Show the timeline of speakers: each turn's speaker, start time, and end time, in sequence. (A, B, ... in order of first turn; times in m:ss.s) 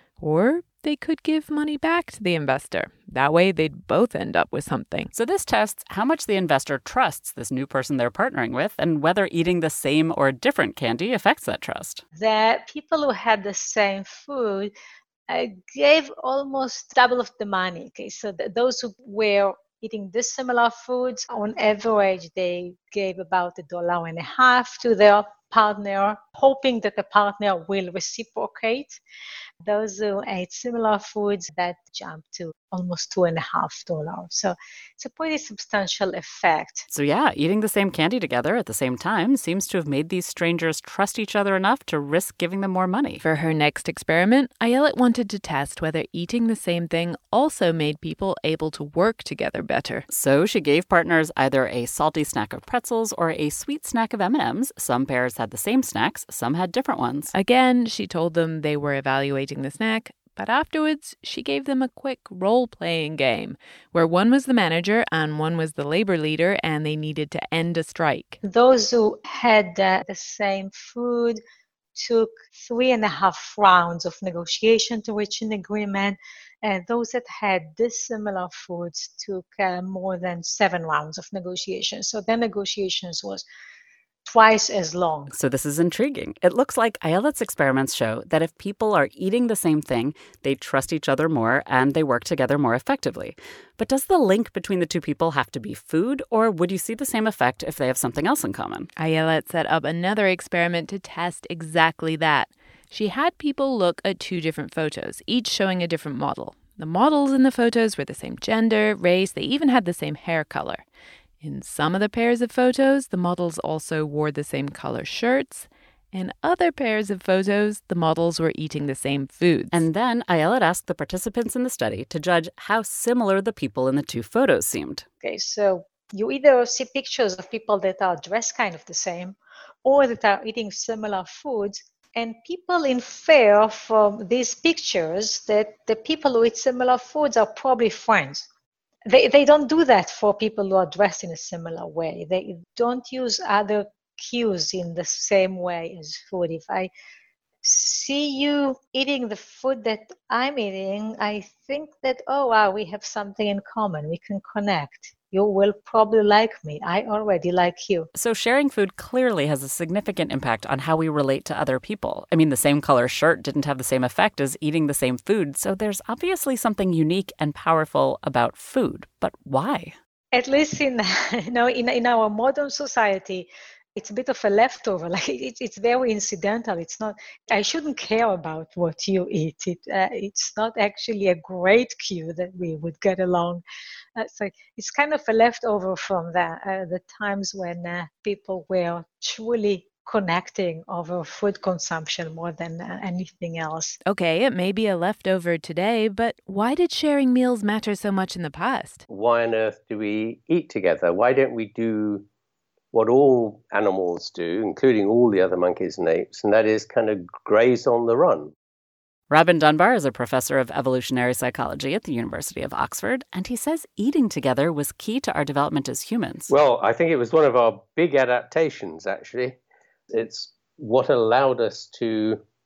0:00.2-0:05.1 A
0:05.1-0:12.0 B
0:12.2-0:14.7 C
0:15.3-0:29.0 C
0:29.6-0:36.9 C
0:36.9-0:43.2 B
0:43.2-0:50.0 A
0:50.1-0:57.3 B
0:57.3-1:08.4 A
1:08.4-1:11.4 C
1:12.0-1:23.4 C
1:24.2-1:25.3 C
1:25.3-1:38.9 B
1:39.0-1:50.8 A
1:51.4-1:59.8 A
1:59.7-2:05.0 B
2:05.2-2:18.4 C
2:19.1-2:26.9 C
2:27.6-2:38.1 C
2:38.2-2:50.0 B
2:50.3-3:03.6 C
3:04.2-3:14.0 C
3:14.1-3:19.0 A
3:19.1-3:22.2 D
3:22.9-3:28.5 D
3:29.3-3:36.5 B
3:36.5-3:39.6 D
3:40.1-3:42.4 D